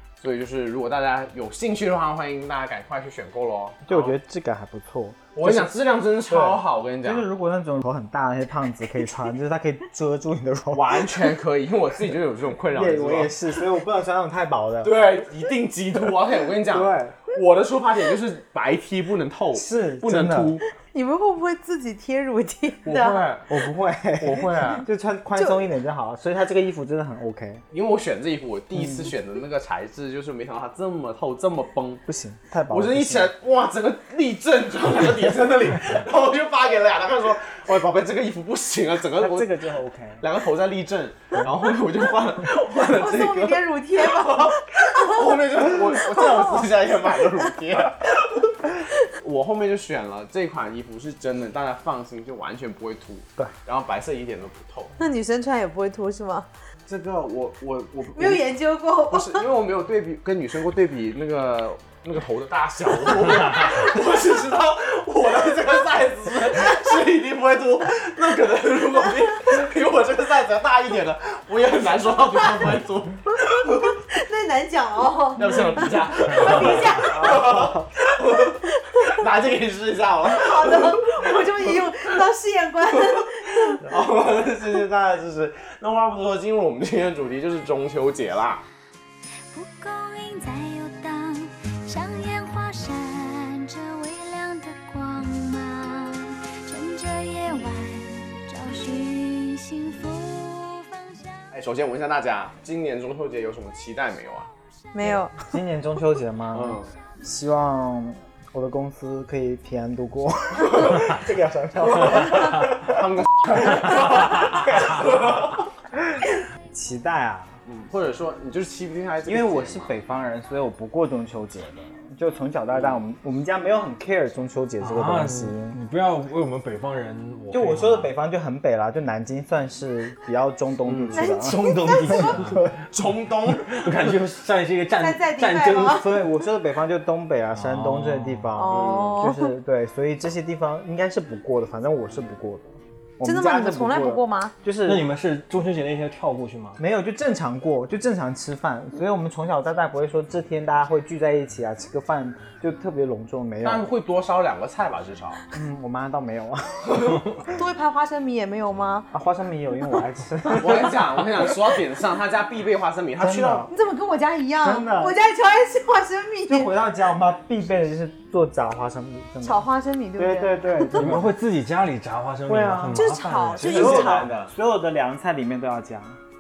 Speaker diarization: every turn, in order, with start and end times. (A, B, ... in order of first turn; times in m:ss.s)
0:00.2-0:04.2 A
0:03.9-0:05.7 B
0:05.4-0:07.3 A
0:06.3-0:11.2 B
0:10.7-0:13.3 A
0:12.7-0:15.1 B
0:14.8-0:20.6 A
0:16.7-0:17.2 B
0:19.5-0:20.6 B
0:20.9-0:23.2 C
0:22.8-0:23.6 A
0:23.5-0:27.6 B
0:24.2-0:24.9 A
0:27.7-0:32.0 A
0:28.8-0:29.1 B
0:32.1-0:33.3 B
0:32.7-0:39.5 A
0:39.2-0:40.2 B
0:40.2-0:55.0 A
0:42.9-0:45.2 C
0:46.1-0:46.4 C
0:55.0-0:56.5 C
0:56.9-0:58.5 A
0:58.2-0:59.4 C
0:59.1-1:13.9 A
1:13.9-1:17.4 C
1:15.4-1:21.2 A
1:17.0-1:17.9 B
1:20.3-1:23.8 C
1:23.8-1:28.6 A
1:29.5-1:41.4 D
1:41.5-1:44.5 A
1:44.9-1:45.4 C
1:45.0-1:53.0 B
1:46.5-1:46.9 A
1:51.8-1:55.6 A
1:53.6-1:57.6 B
1:57.7-1:59.9 A
1:59.3-2:05.8 B
2:02.7-2:03.0 A
2:04.8-2:08.1 E
2:07.5-2:12.7 B
2:10.9-2:11.2 A
2:11.1-2:12.4 C
2:11.4-2:12.7 E
2:12.9-2:14.1 A
2:13.7-2:16.0 E
2:15.0-2:16.1 C
2:15.8-2:25.1 B
2:17.6-2:18.5 E
2:18.6-2:19.5 C
2:18.7-2:19.2 A
2:23.2-2:24.5 C
2:24.8-2:26.8 E
2:26.8-2:33.9 B
2:33.6-2:35.4 A
2:35.5-2:37.1 B
2:36.9-2:37.2 A
2:37.5-2:39.1 C
2:39.1-2:41.0 B
2:40.6-2:43.7 A
2:43.2-2:43.7 B
2:43.7-2:46.7 C
2:44.6-2:45.2 B
2:46.5-2:49.7 B
2:49.4-2:51.0 C
2:50.2-2:51.3 B
2:51.0-2:54.0 E
2:52.5-2:53.1 B
2:53.0-2:54.2 C
2:53.6-2:56.2 B
2:53.6-2:54.5 A